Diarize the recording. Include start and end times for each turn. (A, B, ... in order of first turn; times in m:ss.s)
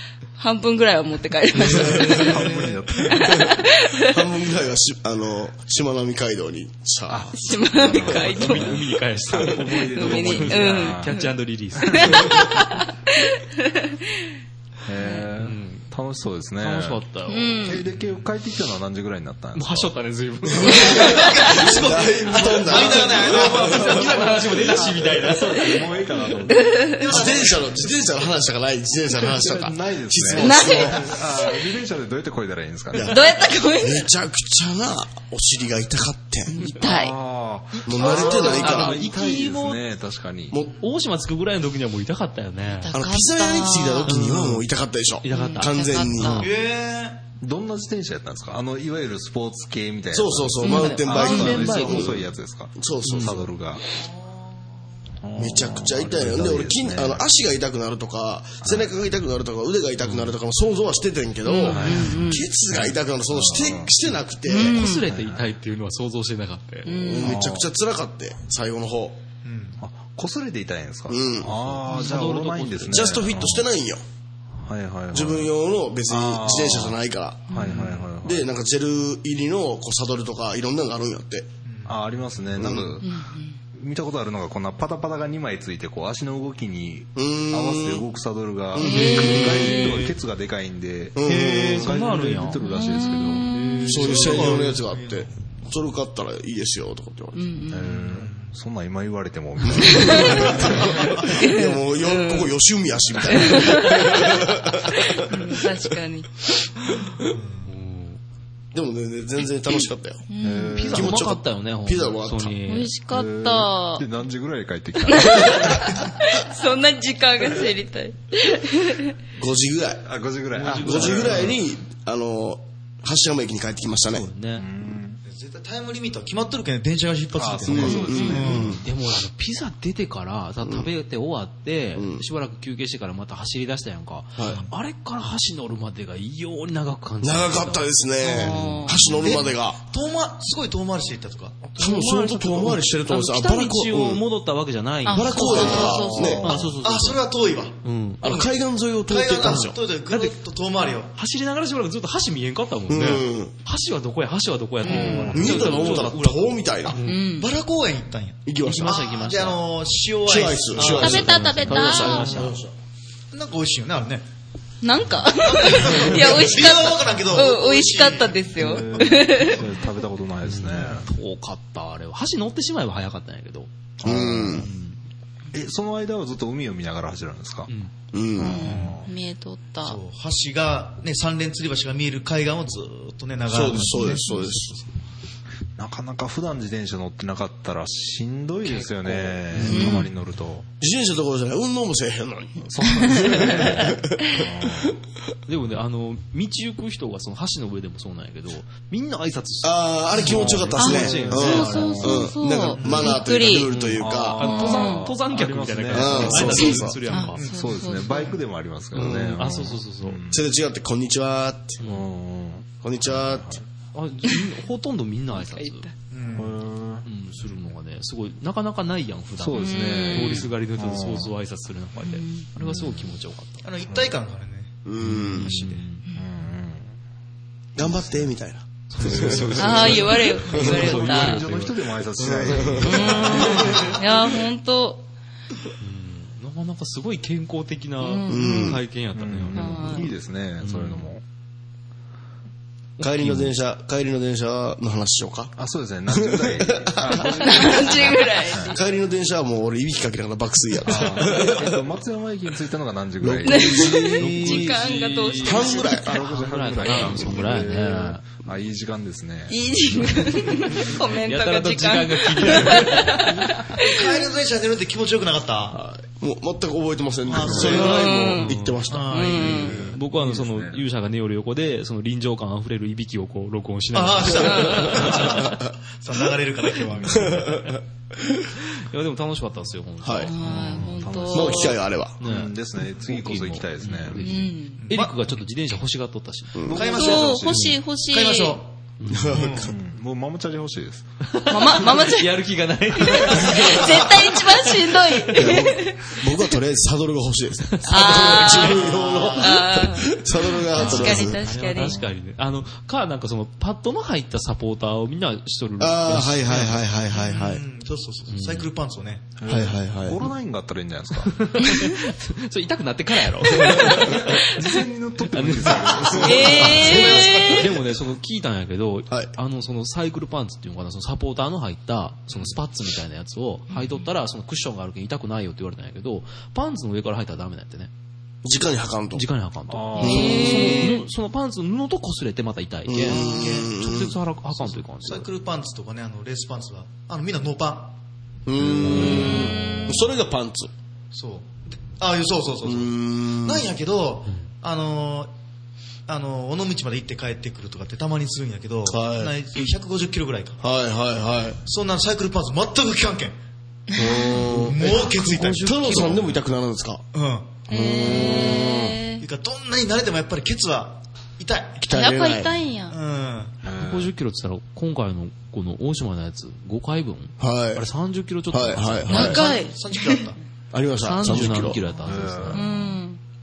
0:00.4-0:02.3 A
0:01.6-0:03.5 B
0:01.9-0:02.8 C
0:03.0-0:04.2 A
0:04.0-0:07.4 D
0:07.1-0:11.2 B
0:07.4-0:11.3 A
0:08.2-0:12.3 E
0:11.8-0:12.3 B
0:11.9-0:13.9 A
0:14.8-0:17.0 B
0:15.0-0:15.2 A
0:15.4-0:15.9 E
0:16.6-0:17.6 E
0:17.3-0:17.8 A
0:17.6-0:19.9 B
0:19.5-0:21.3 E
0:20.6-0:23.9 D
0:20.7-0:24.3 C
0:20.8-0:21.4 A
0:21.7-0:27.5 B
0:22.4-0:25.9 E
0:26.4-0:27.1 A
0:27.0-0:28.0 C
0:27.1-0:31.1 D
0:29.2-0:33.2 B
0:30.4-0:31.7 A
0:32.9-0:33.2 D
0:33.0-0:34.1 A
0:33.8-0:36.7 D
0:36.6-0:37.1 A
0:36.8-0:40.6 B
0:37.8-0:39.0 D
0:38.0-0:38.7 A
0:38.0-0:39.8 E
0:40.5-0:40.8 D
0:40.8-0:42.9 E
0:42.7-0:44.2 A
0:42.9-0:46.4 D
0:44.1-0:44.6 E
0:45.2-0:46.5 E
0:45.3-0:46.5 A
0:46.4-0:47.2 C
0:47.4-0:53.8 B
0:50.1-0:53.5 D
0:50.6-0:51.0 A
0:50.7-0:52.1 E
0:53.0-0:53.3 E
0:54.0-0:54.5 C
0:55.2-0:57.2 B
0:55.4-1:04.8 D
0:58.6-0:58.9 B
1:01.4-1:02.5 A
1:01.6-1:04.0 B
1:04.5-1:05.0 A
1:04.6-1:06.9 E
1:04.8-1:05.5 B
1:06.8-1:07.4 A
1:07.0-1:09.2 D
1:07.2-1:07.6 B
1:09.4-1:09.8 C
1:09.8-1:13.7 B
1:11.1-1:11.7 D
1:11.9-1:13.1 E
1:12.9-1:14.0 D
1:14.6-1:15.5 B
1:15.1-1:21.5 D
1:16.1-1:17.0 B
1:17.5-1:17.7 A
1:17.5-1:18.5 B
1:21.6-1:22.2 C
1:21.8-1:23.0 B
1:22.6-1:22.9 D
1:23.0-1:23.6 A
1:23.8-1:34.6 B
1:27.2-1:28.0 D
1:28.7-1:29.8 D
1:28.8-1:29.9 A
1:29.0-1:30.1 E
1:31.1-1:31.8 D
1:31.2-1:32.6 E
1:32.7-1:33.9 A
1:33.8-1:37.5 D
1:34.2-1:35.3 C
1:37.3-1:38.1 A
1:37.7-1:40.9 B
1:38.1-1:38.5 C
1:39.9-1:45.7 D
1:39.9-1:40.4 A
1:40.8-1:41.2 C
1:41.3-1:42.5 A
1:43.3-1:44.4 A
1:45.1-1:46.5 A
1:47.3-1:47.7 C
1:47.6-1:48.2 E
1:48.7-1:50.2 D
1:50.3-1:50.8 A
1:50.4-1:51.2 B
1:50.6-1:52.9 E
1:50.9-1:52.6 D
1:52.6-1:54.0 A
1:53.1-1:56.0 B
1:55.0-1:59.1 A
1:59.4-2:00.0 D
2:00.0-2:01.6 B
2:00.5-2:01.5 E
2:00.8-2:04.3 D
2:04.1-2:04.6 E
2:04.6-2:05.2 B
2:05.2-2:08.8 C
2:07.3-2:08.8 B
2:07.6-2:08.8 D
2:08.1-2:08.5 A
2:08.8-2:19.0 E
2:10.6-2:10.9 D
2:11.9-2:12.2 D
2:14.4-2:14.6 D
2:17.2-2:19.8 D
2:18.2-2:19.4 A
2:19.2-2:21.6 C
2:21.6-2:27.2 E
2:21.8-2:24.2 D
2:25.0-2:26.4 A
2:25.1-2:26.5 D
2:25.5-2:25.8 C
2:26.1-2:26.8 B
2:26.8-2:28.4 C
2:27.8-2:28.2 E
2:28.2-2:29.8 D
2:29.1-2:31.1 C
2:29.4-2:30.4 E
2:31.1-2:37.2 E
2:32.9-2:33.5 D
2:34.8-2:35.9 B
2:34.8-2:35.4 C
2:34.9-2:35.2 A
2:35.3-2:37.0 D
2:37.0-2:37.5 A
2:37.1-2:41.4 C
2:38.4-2:39.1 D
2:38.6-2:39.6 E
2:40.2-2:42.7 D
2:40.8-2:42.6 E
2:40.8-2:42.3 A
2:42.0-2:42.5 B
2:43.3-2:44.2 C
2:44.8-2:49.6 A
2:45.4-2:48.5 C
2:48.6-2:51.1 B
2:50.4-2:53.7 E
2:54.0-2:54.6 B
2:54.0-2:54.7 D
2:54.6-2:55.0 E
2:55.5-2:57.7 B
2:57.7-2:57.9 E
2:58.1-2:58.7 D
2:58.4-3:00.0 A
2:58.4-2:59.1 B
2:58.6-2:59.0 C
2:59.8-3:04.9 C
3:03.5-3:04.7 D
3:04.0-3:04.5 A
3:05.8-3:10.6 B
3:08.6-3:10.0 E
3:09.6-3:10.0 A
3:10.8-3:14.9 D
3:12.6-3:14.9 B
3:15.5-3:22.2 E
3:19.6-3:24.4 D
3:20.2-3:22.3 B
3:20.8-3:23.7 A
3:22.8-3:23.2 C
3:23.7-3:27.4 E
3:23.8-3:27.0 B
3:24.4-3:25.0 A
3:25.9-3:27.0 D
3:27.1-3:28.4 A
3:27.3-3:27.8 C
3:27.5-3:30.4 B
3:28.9-3:30.2 E
3:30.3-3:31.8 D
3:31.8-3:33.6 B
3:32.8-3:33.6 D
3:33.9-3:35.9 E
3:35.3-3:35.9 A
3:36.1-3:36.6 C
3:36.3-3:37.0 B
3:37.0-3:43.6 E
3:39.4-3:41.3 B
3:39.6-3:40.4 A
3:42.0-3:42.5 A
3:43.6-3:44.8 C
3:43.9-3:44.1 B
3:44.8-3:45.5 D
3:45.0-3:46.0 E
3:45.3-3:45.8 C
3:46.1-3:46.9 B
3:47.8-3:49.9 D
3:47.8-3:48.1 B
3:48.9-3:51.8 E
3:49.3-3:50.0 B
3:49.6-3:51.4 A
3:50.5-3:53.9 B
3:52.2-3:53.8 D
3:52.8-3:55.0 A
3:55.8-4:01.1 E
3:58.0-3:58.8 A
3:58.3-3:58.8 D
3:59.1-4:01.2 B
3:59.6-4:00.1 A
4:03.0-4:03.6 E
4:03.0-4:05.5 D
4:05.6-4:08.7 B
4:06.1-4:07.3 D
4:07.4-4:08.8 A
4:08.6-4:11.8 D
4:10.9-4:19.6 B
4:13.2-4:14.6 D
4:13.4-4:16.1 A
4:14.2-4:18.2 E
4:15.4-4:16.1 D
4:19.5-4:24.3 A
4:20.8-4:21.1 B
4:21.2-4:23.6 E
4:23.7-4:25.8 C
4:25.7-4:29.3 D
4:27.3-4:28.3 C
4:27.7-4:28.5 A
4:28.4-4:35.5 E
4:28.9-4:29.9 C
4:29.1-4:29.7 A
4:29.6-4:30.8 B
4:33.9-4:37.6 C
4:34.4-4:35.0 A
4:35.2-4:35.6 D
4:37.1-4:37.8 D
4:38.8-4:41.0 E
4:40.0-4:40.3 D
4:40.2-4:41.8 A
4:40.4-4:44.4 B
4:41.3-4:42.2 D
4:42.2-4:46.7 E
4:44.2-4:44.8 A
4:44.8-4:45.3 C
4:46.5-4:46.9 D
4:46.6-4:47.7 B
4:46.7-4:48.7 C
4:46.7-4:48.6 A
4:47.5-4:47.8 E
4:49.0-4:49.5 E
4:49.1-4:49.7 D
4:49.3-4:49.7 C
4:49.5-4:51.0 B
4:51.3-4:55.3 E
4:51.5-4:52.4 A
4:52.9-4:56.3 A
4:55.3-5:01.4 D
4:57.8-4:59.4 E
4:57.8-5:02.0 A
5:00.7-5:06.8 E
5:05.8-5:07.6 D
5:07.1-5:09.3 C
5:08.3-5:08.7 E
5:09.4-5:11.5 B
5:09.5-5:10.2 D
5:11.2-5:14.7 E
5:13.7-5:16.8 B
5:15.3-5:27.9 E
5:16.2-5:17.6 A
5:16.4-5:17.6 D
5:16.7-5:17.7 C
5:28.4-5:29.2 D
5:29.1-5:35.3 E
5:29.7-5:30.5 B
5:30.0-5:31.0 A
5:30.0-5:30.9 D
5:32.9-5:34.2 D
5:33.1-5:33.7 C
5:34.5-5:38.0 C
5:38.4-5:40.7 D
5:38.6-5:39.6 B
5:39.1-5:39.8 A
5:41.1-5:45.3 C
5:42.6-5:43.7 D
5:46.1-5:50.6 C
5:48.8-5:49.3 D
5:50.6-5:51.6 D
5:51.6-5:53.3 C
5:53.9-5:54.4 A
5:53.9-5:57.0 D
5:54.5-5:56.1 C
5:55.2-5:56.2 E
5:57.1-5:57.5 C
5:57.7-5:59.0 D
5:57.7-5:59.2 A
5:59.2-6:01.8 C
6:01.8-6:02.5 D
6:01.9-6:03.0 A
6:02.9-6:03.5 C
6:03.6-6:04.1 B
6:03.8-6:09.4 E
6:07.4-6:07.9 D
6:08.5-6:09.4 D
6:09.1-6:10.3 A
6:09.1-6:10.4 C
6:10.7-6:11.8 D
6:11.0-6:12.6 E
6:11.9-6:12.6 B
6:12.5-6:13.2 A